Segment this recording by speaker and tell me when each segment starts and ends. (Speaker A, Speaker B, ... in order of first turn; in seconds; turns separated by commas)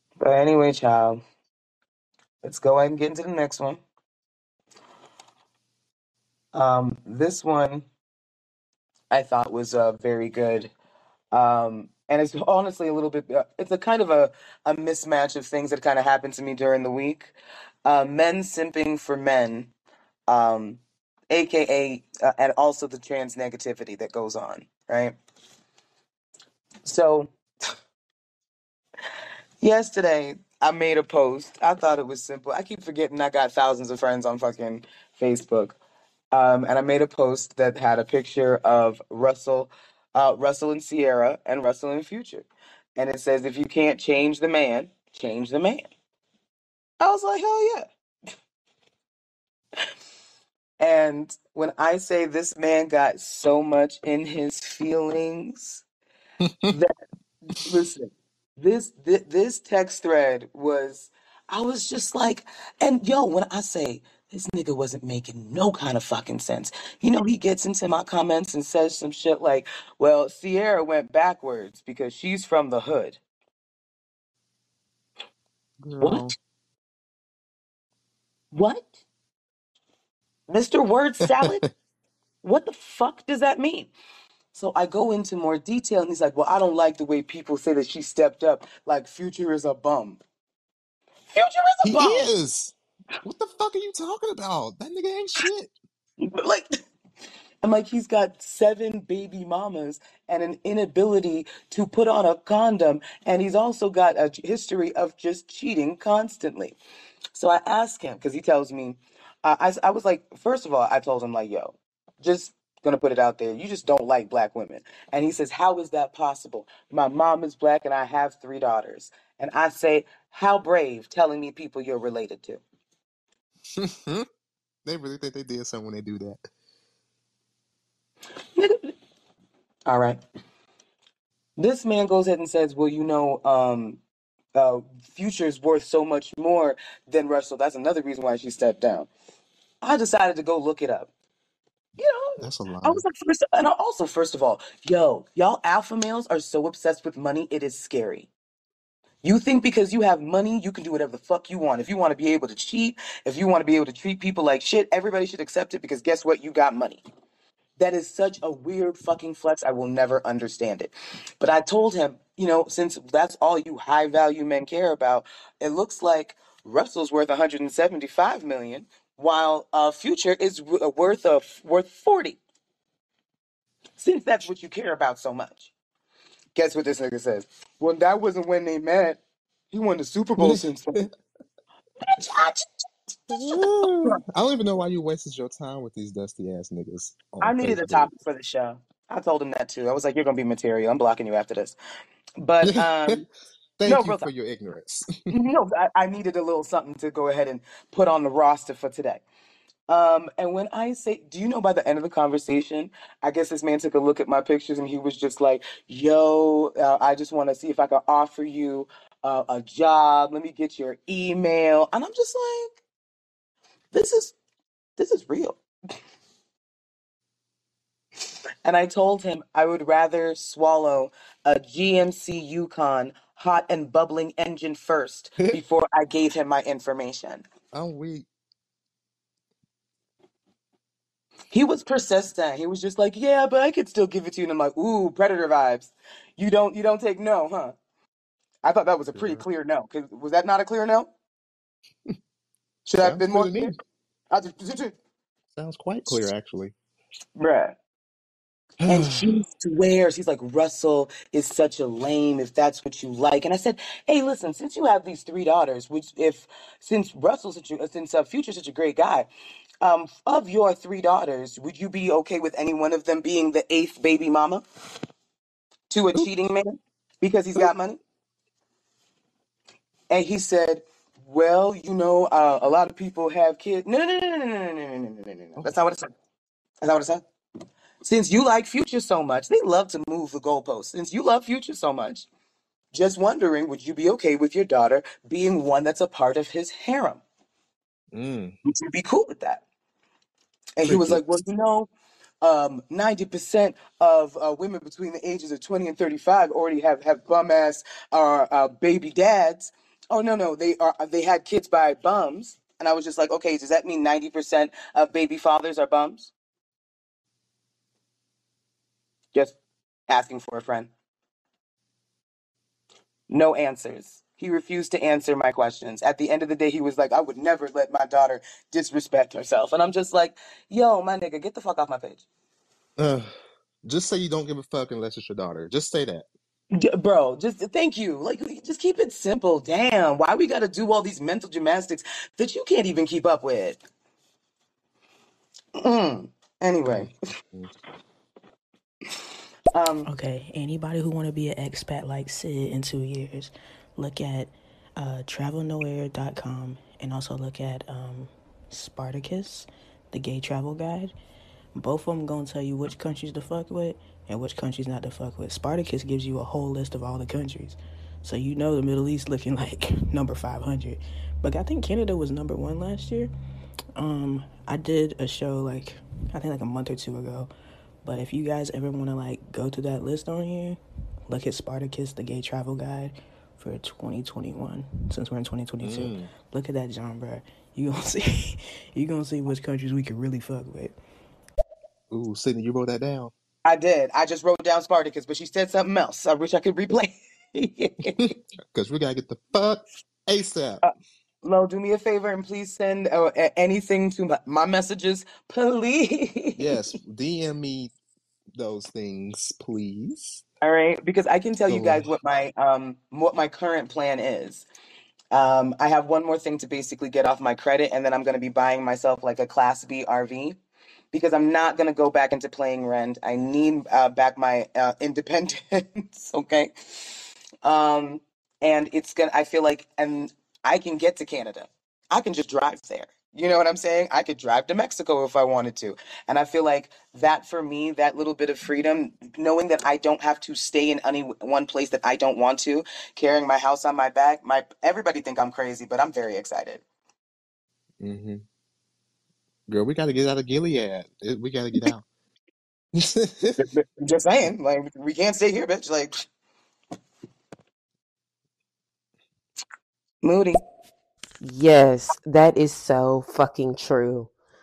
Speaker A: 0.2-1.2, Speaker A: 2.4-3.8, Speaker A: 6.5-7.9, Speaker A: 9.1-10.7, Speaker A: 11.3-17.3, Speaker A: 17.9-19.7, Speaker A: 20.3-25.1, Speaker A: 26.9-27.3, Speaker A: 29.6-35.8, Speaker A: 36.3-45.9, Speaker A: 47.0-47.9, Speaker A: 50.8-55.8, Speaker B: 56.4-56.8, Speaker A: 57.5-73.2, Speaker B: 75.8-76.3, Speaker A: 76.0-76.3, Speaker A: 78.5-79.0, Speaker A: 80.5-81.6, Speaker B: 81.3-81.7, Speaker A: 82.4-83.9, Speaker A: 84.5-90.2, Speaker A: 91.3-92.3, Speaker B: 91.8-95.7, Speaker A: 96.2-96.8, Speaker A: 97.6-106.8, Speaker A: 107.3-122.6, Speaker B: 123.8-124.3, Speaker B: 124.8-126.5, Speaker A: 128.6-128.9, Speaker A: 129.9-130.2, Speaker A: 131.6-134.0, Speaker A: 134.6-139.1, Speaker A: 139.8-141.1, Speaker A: 142.0-148.3, Speaker B: 142.4-143.0, Speaker A: 149.2-157.0, Speaker A: 157.8-172.4, Speaker A: 174.0-175.7, Speaker A: 176.6-179.2, Speaker A: 179.7-181.1, Speaker B: 180.4-181.1, Speaker A: 182.0-182.7, Speaker A: 183.3-184.2, Speaker B: 183.3-188.1, Speaker A: 187.4-191.8, Speaker A: 192.4-193.2, Speaker B: 192.6-193.2, Speaker B: 193.8-195.3, Speaker A: 193.8-194.3, Speaker A: 195.3-199.2, Speaker A: 199.9-212.8, Speaker A: 213.9-214.3, Speaker A: 215.0-215.6, Speaker A: 218.7-227.4, Speaker B: 227.7-228.3, Speaker A: 231.5-237.8, Speaker A: 238.6-241.1, Speaker B: 239.1-239.4, Speaker A: 242.9-243.7, Speaker B: 243.0-243.8, Speaker A: 244.3-244.9, Speaker B: 245.5-246.7, Speaker A: 247.4-247.8, Speaker B: 248.8-249.4, Speaker A: 248.9-259.3, Speaker A: 259.8-264.6, Speaker A: 265.9-268.0, Speaker A: 270.1-276.1, Speaker A: 276.8-277.2, Speaker A: 278.0-282.3, Speaker A: 282.9-287.2, Speaker B: 288.1-288.6, Speaker A: 288.6-289.6, Speaker A: 290.8-291.9, Speaker B: 290.8-291.4, Speaker A: 292.4-306.3, Speaker A: 310.1-310.9, Speaker A: 313.3-322.2, Speaker B: 323.0-326.3, Speaker A: 326.7-333.8, Speaker A: 335.8-337.1, Speaker B: 336.9-337.8, Speaker A: 339.7-340.1, Speaker C: 340.1-351.1, Speaker C: 351.8-363.3, Speaker C: 364.0-367.5, Speaker C: 368.0-380.9, Speaker B: 375.8-376.3, Speaker B: 382.1-383.3, Speaker A: 383.6-388.3, Speaker B: 388.2-390.8, Speaker A: 390.8-396.8, Speaker B: 396.6-397.9, Speaker B: 398.5-400.4, Speaker A: 400.6-404.7, Speaker B: 401.7-402.1, Speaker A: 405.3-410.6, Speaker A: 411.1-416.7, Speaker A: 417.6-436.8, Speaker B: 438.0-438.4, Speaker B: 439.7-442.0, Speaker B: 442.9-443.6, Speaker A: 443.6-446.2, Speaker A: 450.2-450.6, Speaker D: 451.4-454.3